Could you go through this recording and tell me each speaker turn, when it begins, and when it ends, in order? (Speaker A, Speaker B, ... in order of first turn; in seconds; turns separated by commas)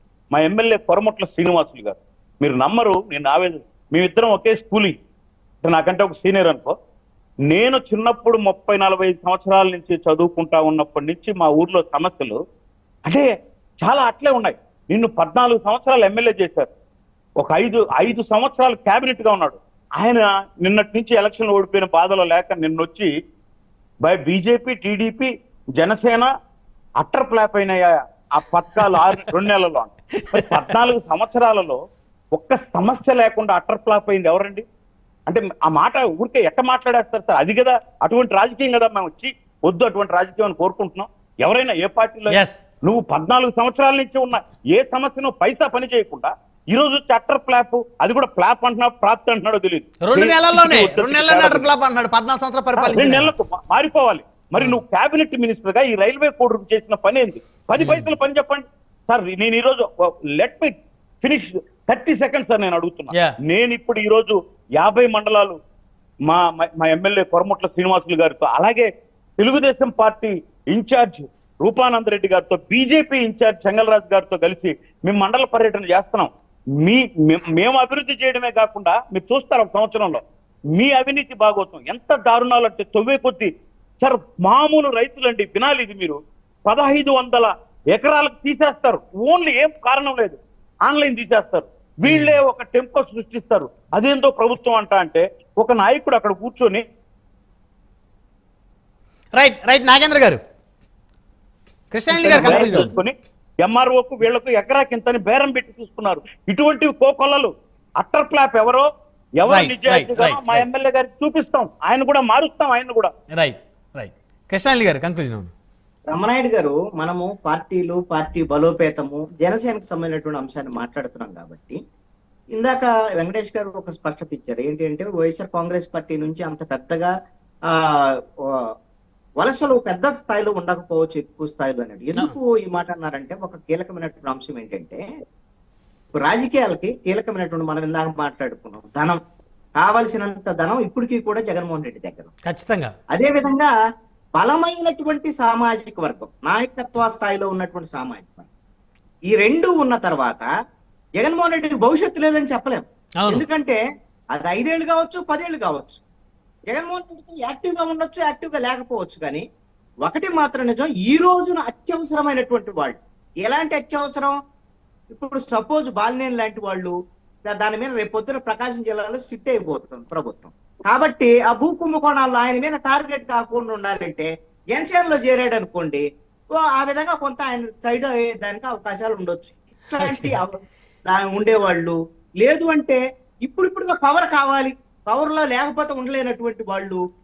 Speaker A: 0.3-4.9, Speaker A: 5.6-6.7, Speaker A: 7.5-12.4, Speaker A: 13.8-16.7, Speaker A: 17.4-23.1, Speaker A: 24.0-26.3, Speaker A: 27.0-31.8, Speaker B: 30.2-30.6, Speaker A: 32.3-34.6, Speaker A: 35.3-51.7, Speaker B: 42.3-42.6, Speaker B: 50.0-53.3, Speaker A: 52.8-65.6, Speaker B: 57.8-58.1, Speaker A: 66.3-76.3, Speaker A: 76.8-80.2, Speaker A: 80.8-96.8, Speaker B: 92.0-92.4, Speaker B: 99.3-100.4, Speaker B: 101.9-102.9, Speaker A: 102.1-108.9, Speaker A: 109.4-113.1, Speaker B: 109.5-110.6, Speaker B: 113.3-115.5, Speaker C: 116.1-121.8, Speaker C: 122.5-127.1, Speaker C: 129.4-135.0, Speaker C: 136.1-139.2, Speaker C: 139.8-142.3, Speaker B: 142.5-142.9, Speaker C: 143.1-143.7, Speaker C: 144.4-148.5, Speaker C: 149.3-150.5, Speaker C: 151.2-153.8, Speaker C: 154.3-156.0, Speaker C: 156.7-159.4, Speaker C: 160.0-164.3, Speaker C: 165.1-166.9, Speaker C: 167.4-176.0, Speaker C: 176.5-187.0, Speaker B: 180.0-180.4